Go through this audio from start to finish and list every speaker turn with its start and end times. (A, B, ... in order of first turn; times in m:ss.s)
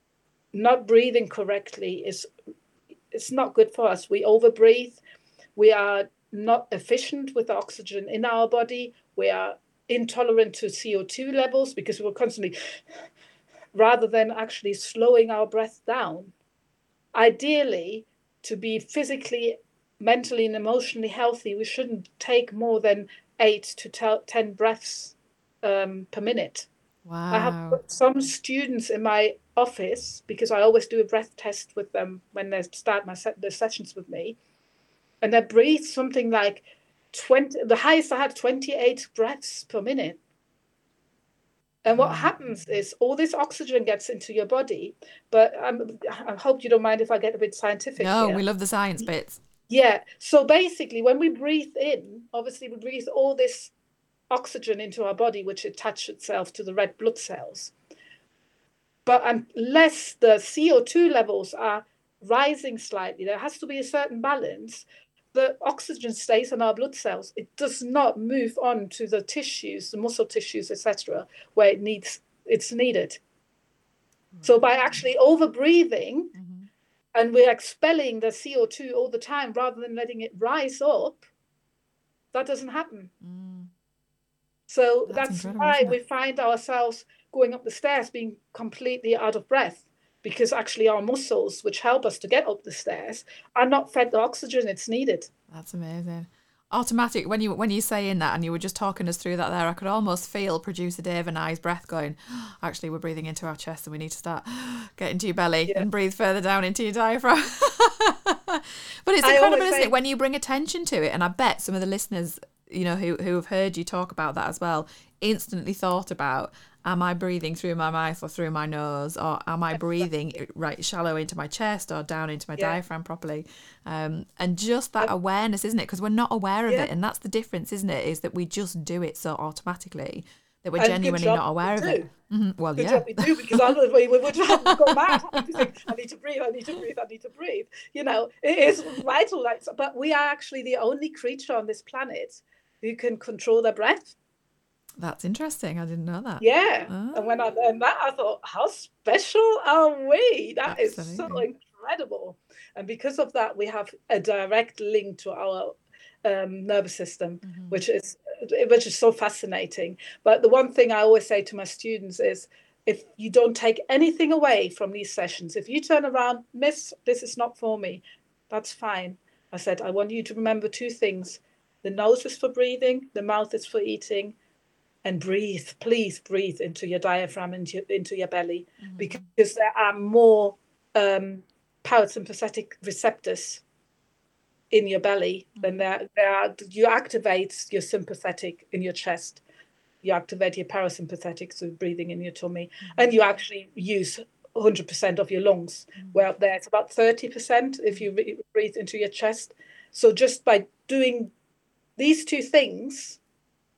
0:00.5-0:02.3 A
0:03.1-0:05.0 A
0:05.6-0:12.6 A
0:13.7-0:16.3 A
0:17.1-0:26.7 A
0:27.1-0:27.8 B
0:27.3-0:34.4 A
0:35.2-0:40.2 A
0:41.8-0:48.4 A
0:41.9-0:42.3 B
0:48.0-0:49.4 B
0:49.7-0:53.7 A
0:54.3-0:57.7 A
0:59.1-1:13.2 A
1:14.3-1:14.6 B
1:14.4-1:16.3 A
1:16.4-1:16.7 B
1:17.2-1:21.2 A
1:22.3-1:23.1 A
1:23.2-1:23.7 B
1:24.7-1:35.3 A
1:25.1-1:26.0 B
1:35.5-2:13.8 B
1:49.2-1:49.9 A
2:10.8-2:12.1 A
2:12.8-2:24.1 A
2:14.4-2:15.7 B
2:25.0-2:27.4 B
2:26.4-2:54.4 A
2:30.7-2:31.4 B
2:37.4-2:37.8 B
2:55.0-3:03.6 A
2:58.8-2:59.2 B
3:04.7-3:09.4 A
3:05.6-3:05.8 B
3:10.0-3:21.3 A
3:16.0-3:16.3 B
3:22.0-3:23.2 A